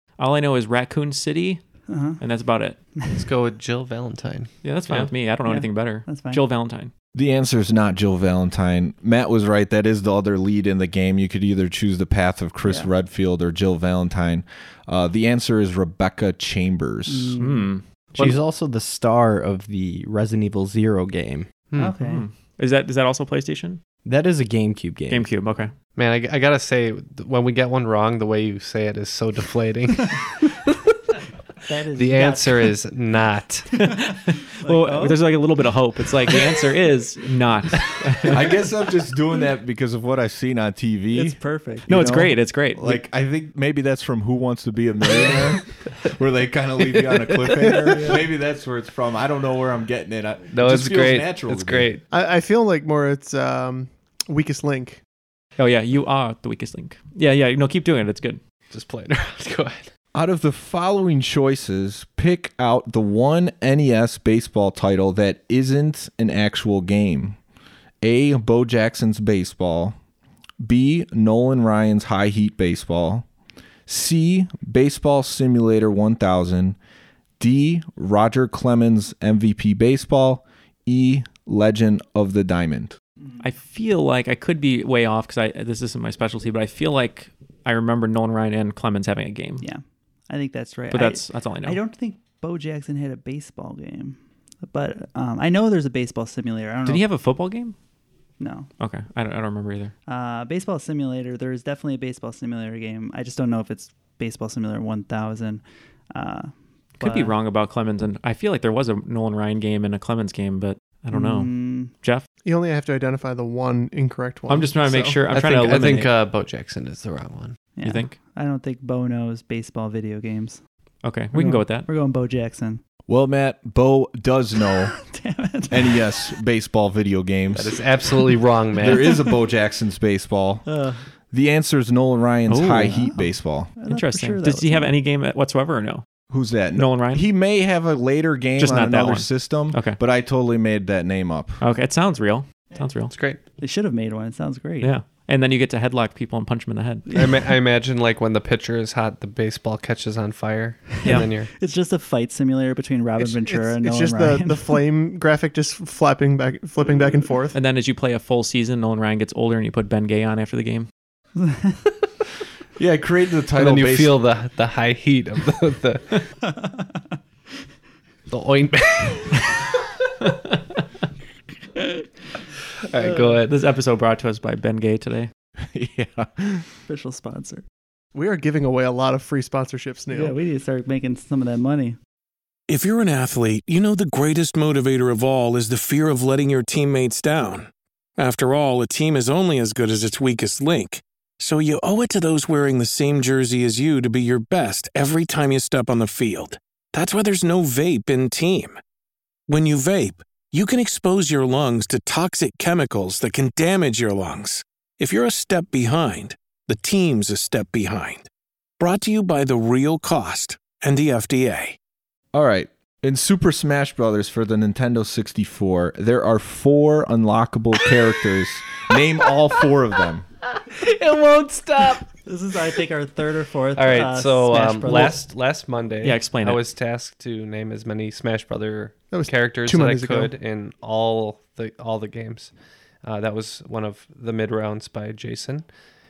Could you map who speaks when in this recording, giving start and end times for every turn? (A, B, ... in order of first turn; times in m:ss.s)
0:00.2-0:01.6 A
0:01.9-0:02.2 B
0:02.2-0:02.8 A
0:03.1-0:05.1 C
0:04.6-0:06.9 A
0:05.4-0:06.4 B
0:07.1-0:17.4 D
0:12.6-0:12.9 B
0:17.1-0:17.7 B
0:17.4-0:17.8 A
0:18.1-0:21.5 E
0:21.8-0:22.2 B
0:22.0-0:23.8 A
0:24.0-0:25.3 E
0:25.1-0:25.7 A
0:25.9-0:30.7 C
0:31.7-0:32.7 B
0:31.9-0:33.7 C
0:33.7-0:38.6 A
0:34.6-0:35.2 B
0:38.3-0:41.4 D
0:41.1-0:42.3 B
0:41.9-0:43.0 A
0:42.8-0:51.9 D
0:50.5-0:52.0 C
0:52.1-0:55.0 F
0:55.6-0:58.4 A
0:58.7-0:59.9 C
1:00.1-1:07.4 D
1:08.0-1:10.0 D
1:10.6-1:13.3 D
1:13.9-1:16.8 D
1:17.4-1:23.0 D
1:23.4-1:29.6 A
1:29.6-1:37.0 B
1:30.9-1:31.8 A
1:36.8-1:37.7 A
1:38.4-1:38.7 B
1:38.8-1:39.9 A
1:40.1-1:47.3 B
1:47.0-1:52.2 A
1:51.1-1:51.9 B
1:52.4-1:55.2 F
1:54.5-1:56.1 A
1:55.3-1:57.7 C
1:57.8-2:00.6 B
1:57.8-1:58.1 A
2:01.0-2:01.9 A
2:01.3-2:02.8 B
2:03.1-2:05.0 D
2:05.0-2:06.3 B
2:05.7-2:07.9 D
2:07.5-2:09.1 C
2:08.8-2:10.6 D
2:10.6-2:11.0 B
2:11.3-2:13.7 D
2:12.5-2:13.0 A
2:12.8-2:14.9 B
2:13.8-2:16.0 A
2:16.3-2:21.6 D
2:16.7-2:17.2 A
2:18.6-2:20.0 A
2:21.6-2:23.1 A
2:23.1-2:23.4 C
2:23.6-2:24.9 B
2:24.8-2:27.1 A
2:27.1-2:27.3 B
2:27.1-2:31.5 C
2:31.0-2:31.3 A
2:31.0-2:34.8 B
2:33.2-2:37.6 F
2:37.5-2:40.9 A
2:41.4-2:41.8 B
2:42.8-2:44.2 D
2:43.6-2:46.3 C
2:48.3-2:49.5 C
2:52.9-2:53.5 C
2:53.4-2:55.3 A
2:55.6-2:56.7 D
2:56.9-2:57.6 B
2:58.1-3:00.4 F
3:00.1-3:02.0 B
3:02.7-3:18.8 G
3:19.5-3:28.3 G
3:28.8-3:31.8 G
3:32.3-3:40.2 D
3:40.6-3:42.1 C
3:42.2-3:45.2 B
3:43.8-3:52.5 C
3:46.0-3:46.6 A
3:49.1-3:50.3 F
3:53.0-3:55.6 C